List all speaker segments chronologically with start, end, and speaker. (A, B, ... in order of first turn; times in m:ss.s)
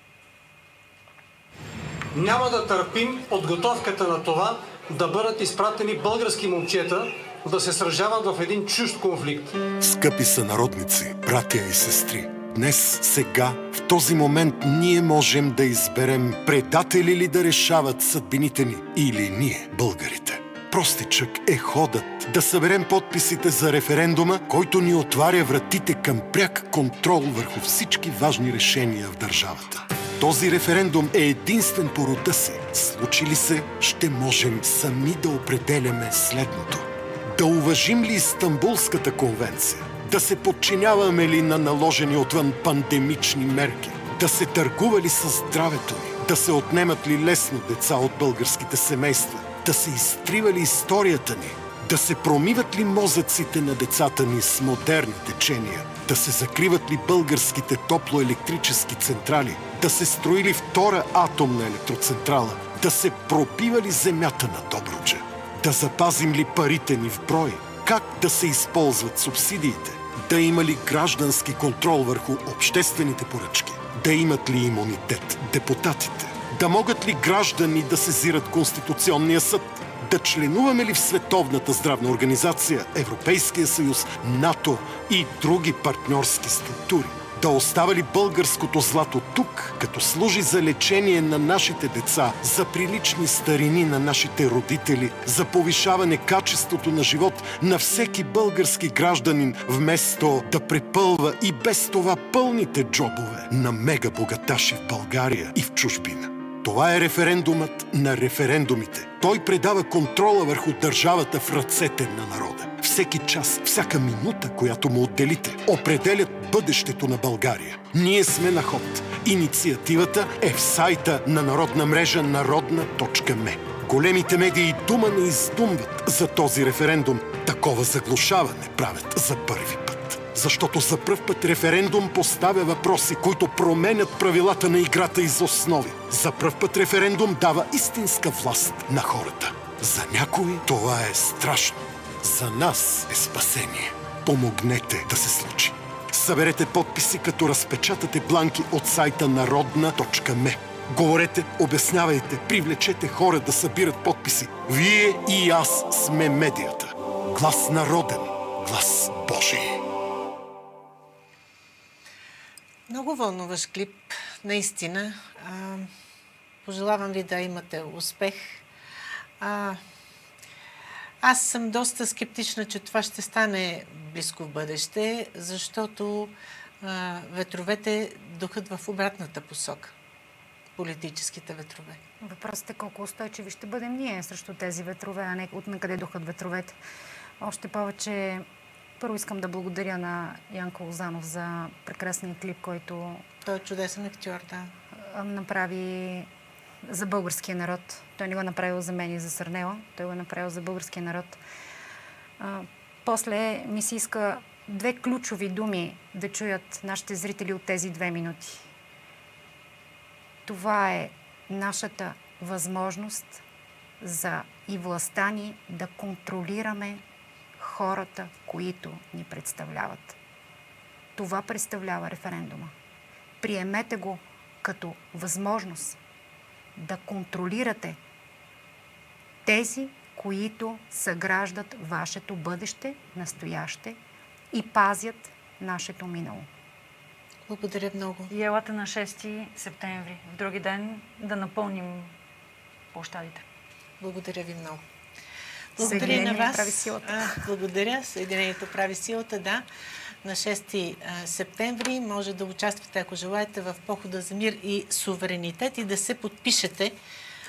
0:02.2-0:09.6 A
0:09.8-2:39.8 B
2:42.9-2:45.9 C
2:46.6-2:48.6 C
2:49.4-2:49.8 C
2:51.2-3:00.0 C
3:00.8-3:02.0 C
3:02.2-3:06.8 D
3:07.4-3:08.4 D
3:09.0-3:13.2 D
3:13.4-3:14.7 C
3:15.0-3:16.3 D
3:16.8-3:21.4 D
3:22.4-3:28.6 D
3:30.5-3:33.4 D
3:34.0-3:37.0 D
3:37.6-3:40.2 D
3:41.2-3:42.7 D
3:43.4-3:46.0 D
3:46.8-3:48.0 D
3:49.4-3:54.0 D
3:54.5-3:56.5 D
3:57.5-3:58.3 C
3:58.3-4:02.1 E
4:02.9-4:03.4 E
4:04.0-4:04.8 C
4:05.8-4:09.7 C
4:05.8-4:07.5 D
4:10.2-4:17.0 C